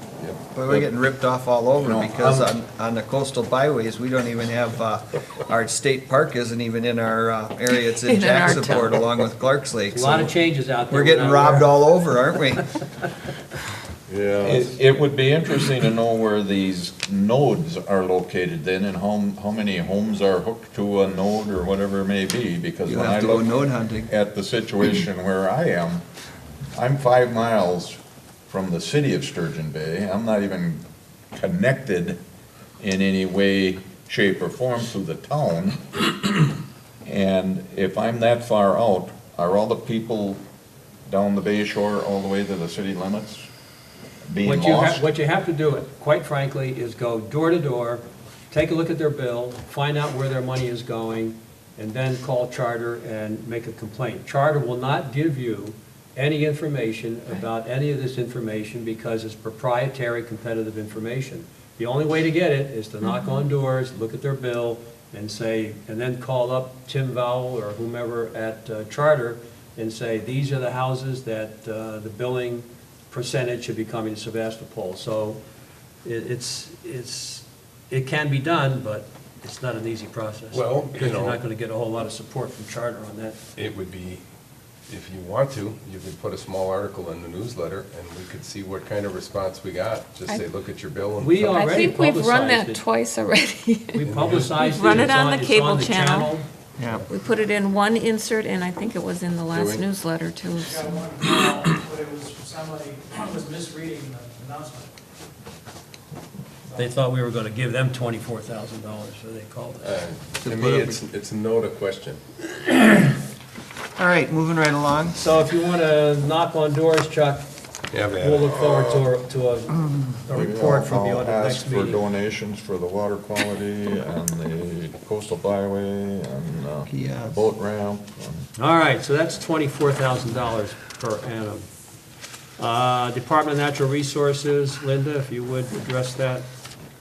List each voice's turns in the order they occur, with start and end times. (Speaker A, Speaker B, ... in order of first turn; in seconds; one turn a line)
Speaker A: 0.2-0.8
Speaker B: 0.5-10.3
Speaker C: 2.2-2.5
Speaker D: 7.9-9.0
Speaker C: 9.9-11.7
Speaker B: 10.9-12.7
Speaker A: 14.1-14.7
Speaker E: 14.4-26.1
Speaker B: 22.9-24.1
Speaker E: 26.7-32.2
Speaker E: 32.8-36.4
Speaker E: 37.0-40.4
Speaker E: 41.1-43.5
Speaker E: 44.3-45.0
Speaker C: 44.4-75.4
Speaker D: 63.1-63.4
Speaker C: 76.0-83.4
Speaker A: 80.5-81.4
Speaker A: 83.6-84.2
Speaker A: 84.9-91.7
Speaker C: 91.2-92.8
Speaker D: 91.5-94.0
Speaker C: 94.0-96.5
Speaker A: 94.0-95.1
Speaker D: 94.6-96.3
Speaker D: 97.1-101.7
Speaker A: 99.5-99.8
Speaker F: 100.7-104.9
Speaker C: 106.7-109.9
Speaker A: 109.8-112.2
Speaker B: 110.4-111.0
Speaker B: 114.0-115.2
Speaker C: 115.2-117.5
Speaker A: 117.9-119.1
Speaker C: 118.2-122.0
Speaker E: 120.3-128.5
Speaker B: 126.9-127.4
Speaker C: 128.6-131.7
Speaker C: 132.6-136.5